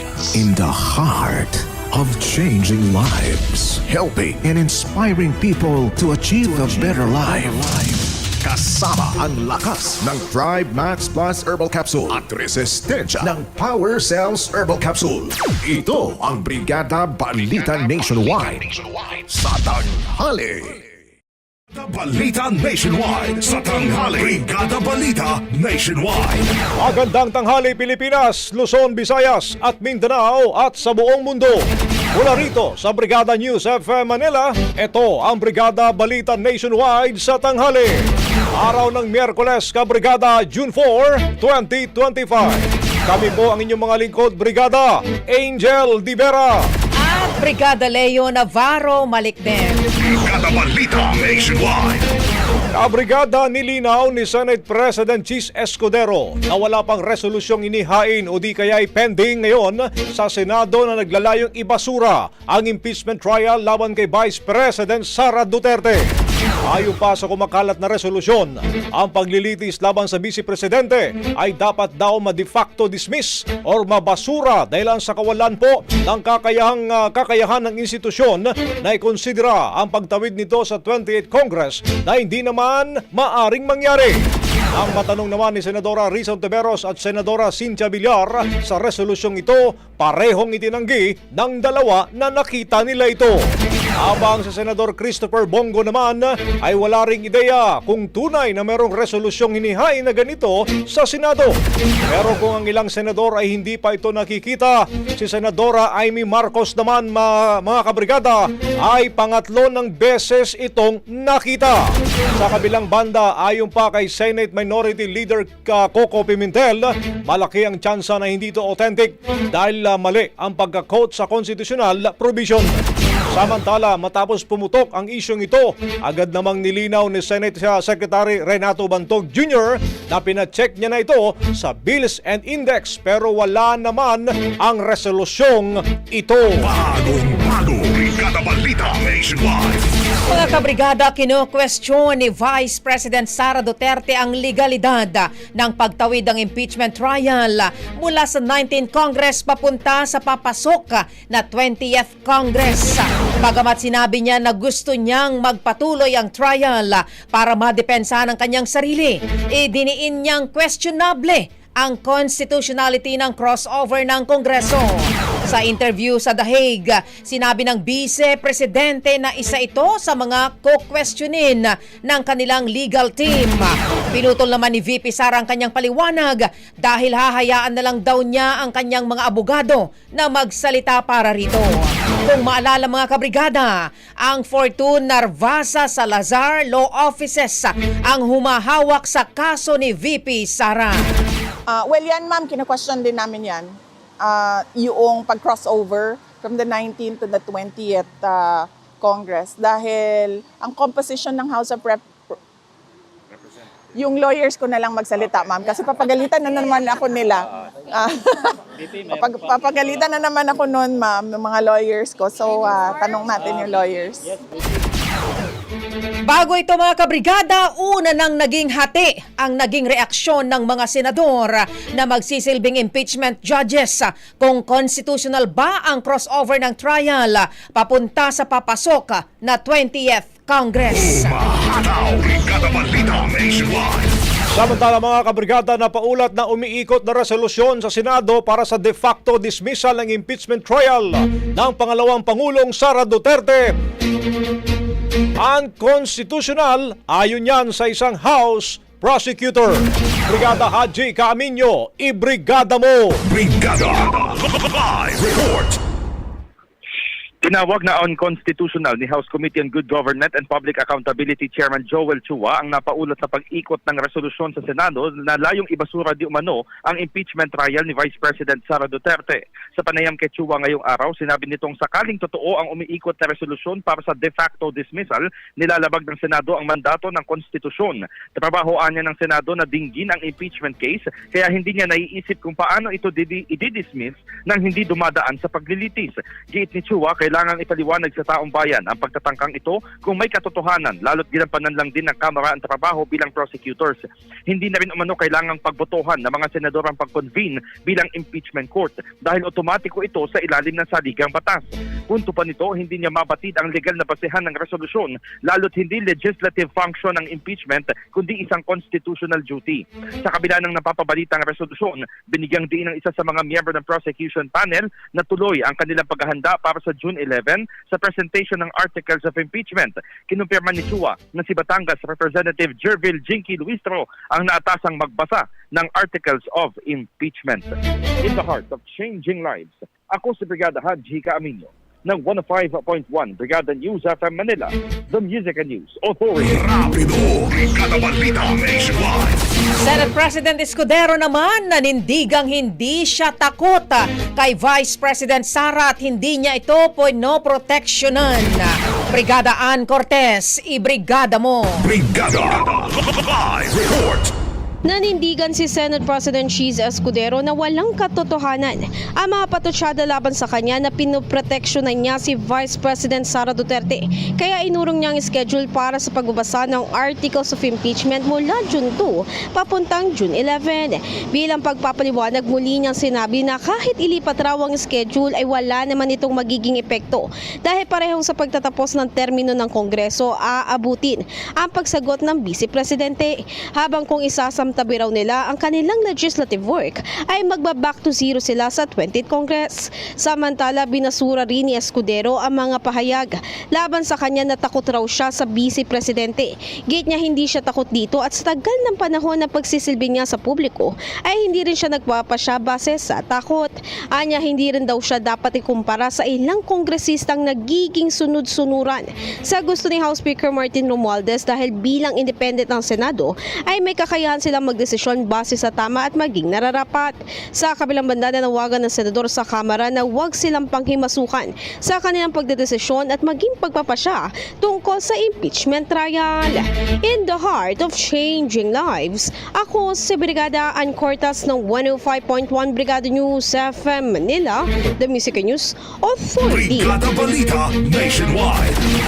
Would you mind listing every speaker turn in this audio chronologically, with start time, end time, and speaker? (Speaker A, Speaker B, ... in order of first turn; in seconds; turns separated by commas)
Speaker A: 0.2-20.8, Speaker B: 21.7-26.5, Speaker C: 26.8-38.0, Speaker C: 38.5-46.7, Speaker D: 47.0-49.8, Speaker B: 50.0-52.0, Speaker C: 52.7-66.0, Speaker C: 66.7-84.2, Speaker C: 84.7-93.4, Speaker C: 94.0-101.6, Speaker C: 102.1-122.7, Speaker C: 123.3-136.7, Speaker B: 136.6-139.9, Speaker D: 140.3-191.1, Speaker E: 191.7-202.3, Speaker E: 203.9-214.3, Speaker D: 216.2-231.4, Speaker B: 230.9-234.1, Speaker C: 234.5-243.7, Speaker C: 245.4-253.2, Speaker B: 253.2-255.8, Speaker F: 257.4-336.7, Speaker B: 336.4-339.4, Speaker D: 339.8-351.9, Speaker B: 351.8-354.3, Speaker G: 354.8-437.0, Speaker B: 436.5-438.8